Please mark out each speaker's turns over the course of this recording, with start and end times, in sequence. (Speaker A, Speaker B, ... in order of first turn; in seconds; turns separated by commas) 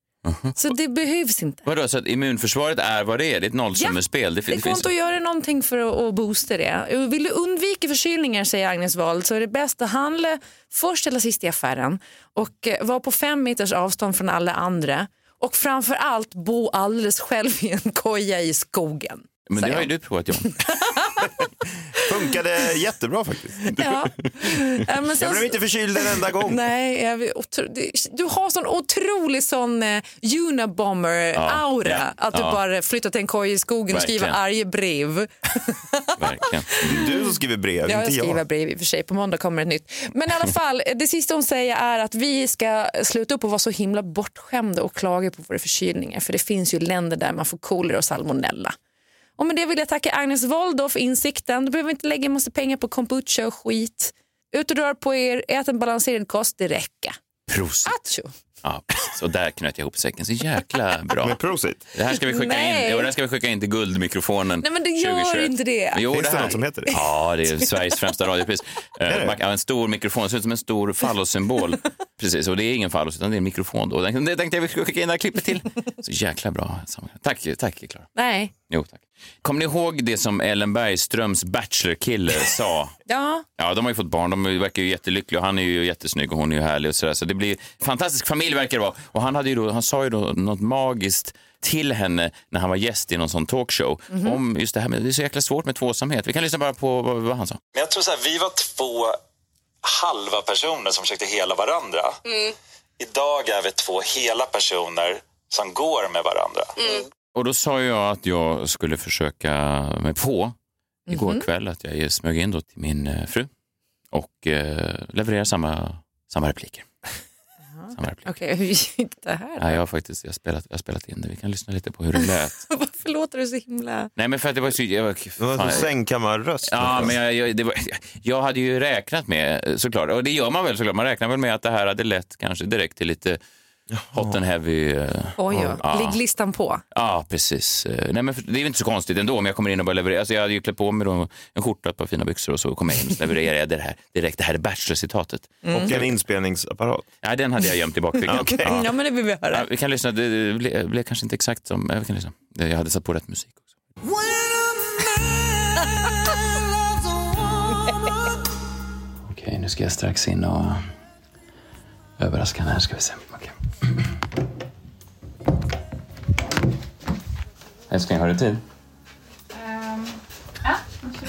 Speaker A: 0.2-0.6, Speaker B: 0.6-1.6, Speaker A: 1.6-4.8, Speaker B: 4.5-19.9, Speaker A: 19.5-20.6, Speaker B: 20.4-21.3, Speaker C: 21.9-23.8, Speaker B: 23.7-37.3, Speaker C: 25.1-26.6, Speaker A: 31.3-32.6, Speaker A: 33.9-34.4, Speaker A: 36.2-37.0, Speaker C: 36.8-38.4, Speaker B: 37.8-48.7, Speaker B: 49.4-57.1, Speaker A: 57.5-57.9, Speaker B: 57.8-58.3, Speaker A: 58.6-61.4, Speaker C: 61.2-61.8, Speaker A: 61.9-78.1, Speaker B: 62.1-63.1, Speaker B: 64.6-66.5, Speaker C: 66.0-66.9, Speaker C: 69.1-69.3, Speaker B: 78.2-78.5, Speaker A: 78.7-82.9, Speaker B: 83.1-83.5, Speaker A: 83.6-97.6, Speaker D: 97.7-99.2, Speaker D: 99.8-102.5, Speaker D: 103.0-107.0, Speaker A: 107.3-110.5, Speaker B: 111.1-111.5, Speaker A: 111.1-113.5, Speaker A: 114.1-116.8, Speaker B: 117.8-119.8, Speaker A: 118.0-118.3, Speaker A: 119.6-122.6, Speaker B: 122.2-124.1, Speaker A: 124.2-125.9, Speaker C: 125.4-127.2, Speaker A: 126.7-133.4, Speaker C: 133.9-134.3, Speaker A: 134.1-136.2, Speaker B: 135.4-136.8, Speaker A: 136.9-146.1, Speaker B: 145.6-145.9, Speaker C: 145.7-147.1, Speaker A: 147.2-148.8, Speaker C: 148.2-148.9, Speaker B: 148.3-149.7, Speaker A: 149.5-153.6, Speaker A: 159.3-160.8, Speaker A: 162.2-163.5, Speaker A: 167.9-168.6